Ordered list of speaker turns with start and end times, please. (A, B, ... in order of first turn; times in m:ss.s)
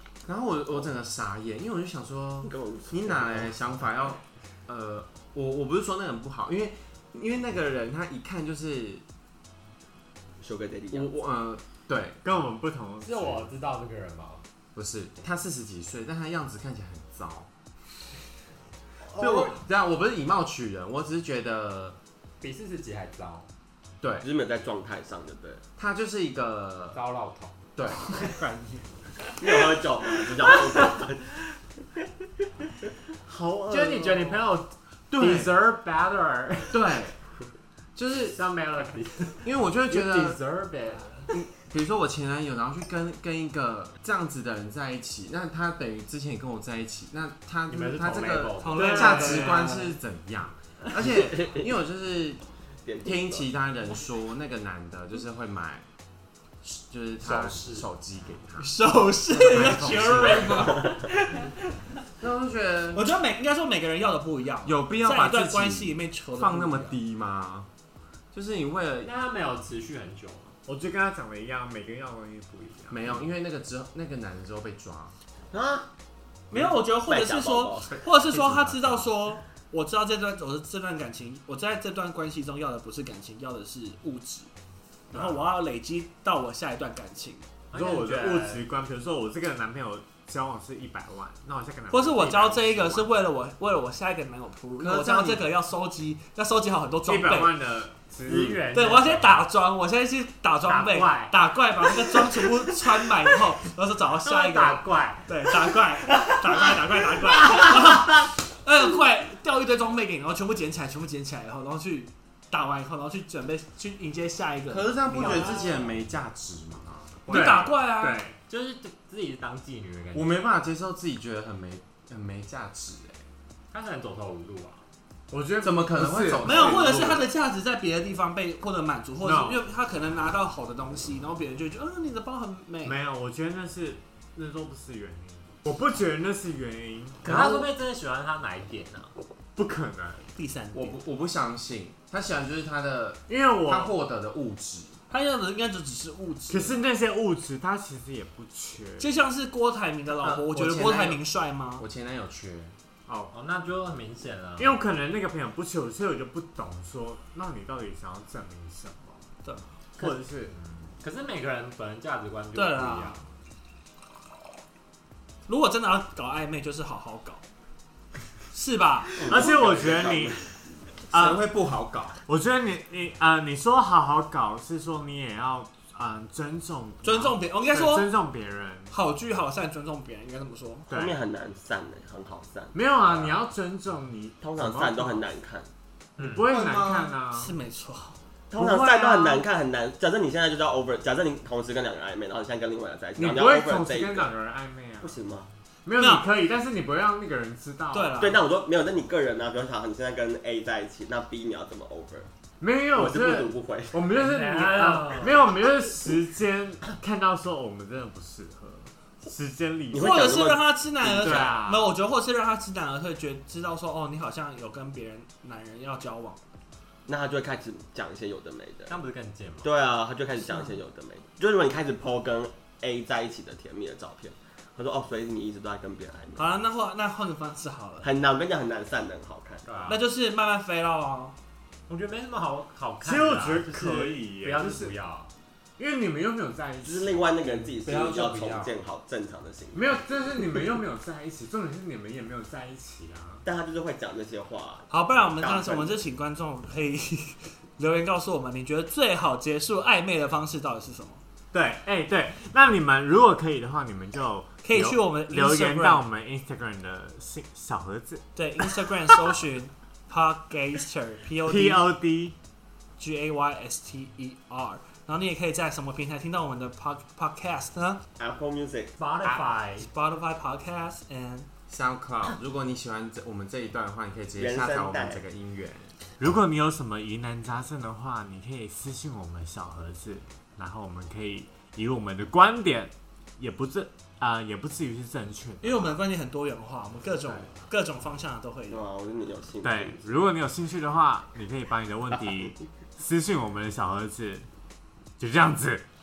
0:00.2-0:09.0 A
0:02.4-0:03.5 B
0:10.4-0:11.2 B
0:10.9-0:12.2 A
0:12.2-0:13.5 C
0:13.0-0:14.4 D
0:14.7-0:17.5 A
0:19.1-0:19.5 E
0:19.2-0:22.0 A
0:22.4-0:23.5 D
0:24.0-0:24.2 A
0:24.2-0:25.6 B
0:25.8-0:27.0 A
0:26.9-0:27.6 D
0:27.8-0:28.2 A
0:28.1-0:28.9 E
0:29.4-0:31.3 B
0:33.2-0:34.5 C
0:33.7-0:36.9 D
0:35.1-0:35.5 A
0:36.7-0:37.2 A
0:37.9-0:38.4 A
0:38.3-0:41.4 D
0:39.4-0:40.4 A
0:41.3-0:52.4 A
0:47.7-0:49.8 D
0:48.6-0:49.8 E
0:48.8-0:49.8 C
0:52.8-0:53.5 B
0:53.0-0:55.8 A
0:56.6-0:58.8 A
0:57.2-0:57.9 D
0:58.6-1:01.5 E
0:59.3-1:00.8 A
0:59.6-1:01.0 D
1:02.2-1:03.1 A
1:02.9-1:07.0 E
1:04.6-1:07.7 A
1:08.3-1:09.1 A
1:09.0-1:10.5 D
1:10.6-1:13.1 C
1:12.9-1:15.1 A
1:15.5-1:15.9 B
1:16.5-1:24.5 E
1:16.5-1:17.9 B
1:18.3-1:18.8 A
1:18.6-1:19.0 D
1:25.1-1:27.5 E
1:27.7-1:28.6 D
1:27.7-1:33.1 C
1:31.9-1:37.6 E
1:34.8-1:35.5 A
1:37.0-1:38.6 C
1:38.2-1:39.4 D
1:38.7-1:55.7 E
1:40.6-1:41.4 D
1:44.2-1:45.3 D
1:46.1-1:46.4 D
1:54.7-1:57.3 A
1:55.1-1:55.9 D
1:57.2-1:58.2 E
1:57.3-1:58.4 C
1:58.5-2:00.3 D
2:00.1-2:03.2 A
2:03.7-2:04.8 D
2:05.3-2:06.8 C
2:05.6-2:07.3 A
2:06.4-2:13.0 E
2:09.2-2:09.6 C
2:12.8-2:17.5 C
2:17.2-2:19.1 D
2:17.3-2:17.5 E
2:19.6-2:20.3 C
2:20.4-2:21.0 E
2:20.7-2:25.0 A
2:23.3-2:23.9 C
2:25.1-2:26.8 E
2:26.5-2:29.1 C
2:29.0-2:31.8 E
2:30.2-2:31.2 A
2:31.8-2:32.8 A
2:33.1-2:33.3 C
2:33.3-2:34.8 D
2:34.6-2:39.3 C
2:39.4-2:40.1 E
2:40.0-2:40.6 C
2:40.5-2:43.2 D
2:42.5-2:43.2 E
2:45.4-2:47.4 E
2:48.5-2:49.2 E
2:49.2-2:50.5 B
2:49.2-2:50.4 C
2:51.1-2:52.2 A
2:51.1-2:51.4 C
2:52.3-2:59.0 C
2:57.0-2:58.1 E
2:58.9-3:00.9 E
3:00.9-3:01.2 C
3:00.9-3:03.4 B
3:02.7-3:05.2 C
3:04.4-3:05.7 B
3:06.2-3:06.4 D
3:06.2-3:07.5 C
3:06.4-3:07.1 A
3:07.3-3:08.2 E
3:08.5-3:14.3 B
3:08.5-3:09.4 C
3:13.2-3:15.2 C
3:15.0-3:15.5 B
3:15.8-3:18.4 C
3:16.0-3:16.3 E
3:17.9-3:18.4 E
3:18.2-3:22.3 B
3:22.6-3:30.3 C
3:22.9-3:24.0 B
3:24.1-3:25.5 D
3:29.9-3:31.5 B
3:29.9-3:36.4 E
3:31.0-3:31.9 C
3:37.1-3:38.9 B
3:38.9-3:39.7 D
3:39.6-3:46.4 B
3:40.5-3:40.7 E
3:46.4-3:48.1 E
3:48.0-3:49.6 B
3:49.6-3:50.0 D
3:49.9-3:51.4 E
3:51.9-3:55.3 D
3:53.0-3:54.9 C
3:55.8-3:57.2 C
3:56.8-4:00.0 B
3:57.8-3:58.7 A
3:59.7-4:03.4 C
4:03.4-4:06.0 B
4:04.9-4:11.2 E
4:11.5-4:18.2 C
4:14.6-4:16.0 E
4:18.4-4:21.9 E
4:21.4-4:22.4 C
4:23.0-4:28.0 E
4:28.2-4:28.9 B
4:29.0-4:29.9 D
4:29.2-4:31.5 E
4:31.7-4:35.9 A
4:34.4-4:35.2 B
4:36.2-4:45.9 C
4:45.6-4:48.8 E
4:48.7-4:50.0 B
4:49.6-4:54.5 C
4:55.2-4:55.8 C